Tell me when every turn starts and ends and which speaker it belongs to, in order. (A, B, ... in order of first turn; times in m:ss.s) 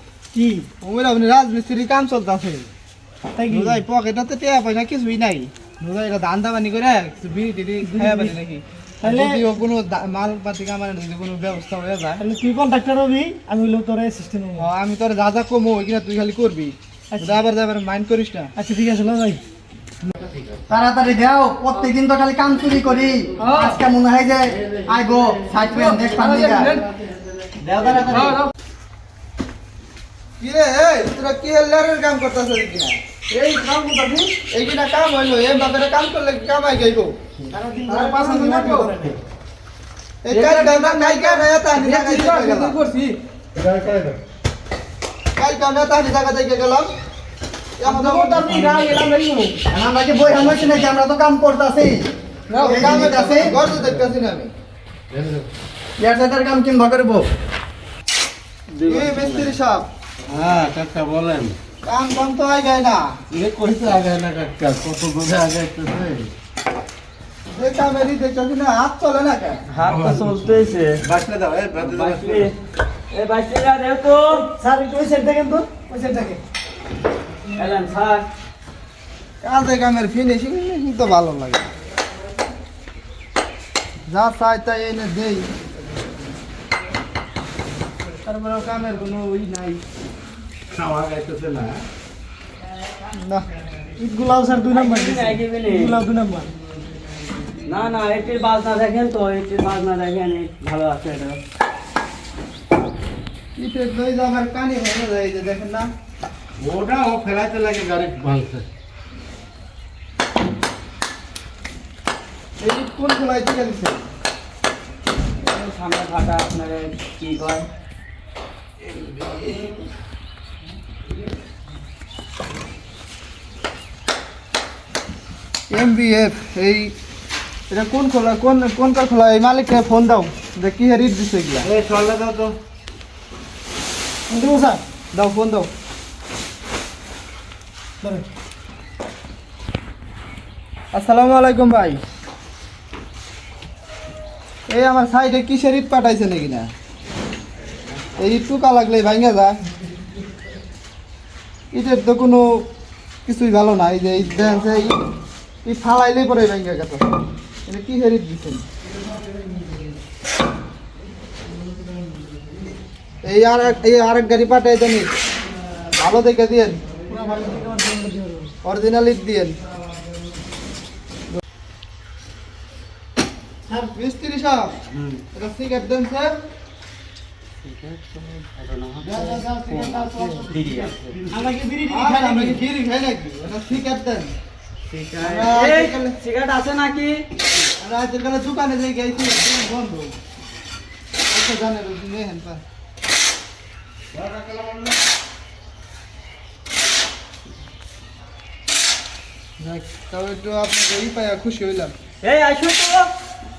0:00.3-0:00.7 A
0:00.8-0:02.7 B
0:03.4-0:03.8 A
0:03.5-0:12.2 B
0:07.8-0:08.4 A
0:09.0-0:09.4 A
0:12.2-0:14.7 A
0:14.6-0:18.5 B
0:18.6-0:19.4 A
0:20.2-0:20.6 C
0:20.7-0:26.5 D
0:23.4-0:23.8 A
0:24.9-0:25.9 C
0:25.3-0:26.7 A
0:25.7-0:26.8 B
0:27.7-0:28.4 C
0:27.8-0:28.3 D
0:30.4-0:37.2 B
0:37.5-0:39.0 A
0:37.9-0:39.0 B
0:40.2-0:42.8 B
0:40.3-0:41.3 E
0:42.1-0:43.0 E
0:43.6-0:44.2 C
0:45.4-0:46.9 B
0:47.8-0:48.7 B
0:47.9-0:49.1 A
0:48.5-0:49.5 E
0:49.7-0:52.1 D
0:52.5-0:54.5 B
0:52.6-0:53.6 D
0:55.1-0:55.5 C
0:56.0-0:57.2 D
0:58.7-0:59.5 E
0:58.9-0:59.9 B
1:00.3-1:01.6 C
1:01.8-1:03.2 B
1:03.3-1:06.3 C
1:07.5-1:09.6 B
1:09.7-1:11.0 E
1:09.8-1:12.5 C
1:11.8-1:12.5 E
1:13.1-1:14.4 E
1:14.4-1:16.4 A
1:17.6-1:18.3 E
1:19.4-1:21.7 B
1:24.1-1:25.5 B
1:28.2-1:29.8 B
1:30.7-1:31.8 C
1:33.1-1:33.5 B
1:34.0-1:36.5 A
1:34.7-1:35.9 E
1:37.6-1:41.4 E
1:43.6-1:45.9 B
1:46.6-1:48.7 C
1:52.6-1:54.0 B
1:55.4-1:57.7 E
2:05.7-2:06.9 B
2:07.7-2:11.7 B
2:11.6-2:12.6 C
2:14.3-2:14.8 A
2:15.1-2:15.7 B
2:20.9-2:22.0 B
2:24.7-2:26.7 B
2:28.2-2:29.6 B
2:31.7-2:32.7 B
2:33.3-2:35.1 B
2:35.6-2:38.6 B
2:43.2-2:45.1 B
2:46.0-2:46.8 B
2:47.1-2:48.5 A
2:48.6-2:49.6 B
2:53.7-2:54.8 B
2:55.3-2:56.4 B
2:57.6-3:01.2 E
2:59.0-3:01.3 B
3:00.7-3:01.2 C
3:01.3-3:02.6 A
3:01.9-3:04.3 B
3:04.9-3:07.2 E
3:05.2-3:06.2 B
3:07.8-3:10.2 B
3:11.3-3:12.6 B
3:14.1-3:14.9 C
3:19.6-3:21.9 B
3:22.2-3:23.1 E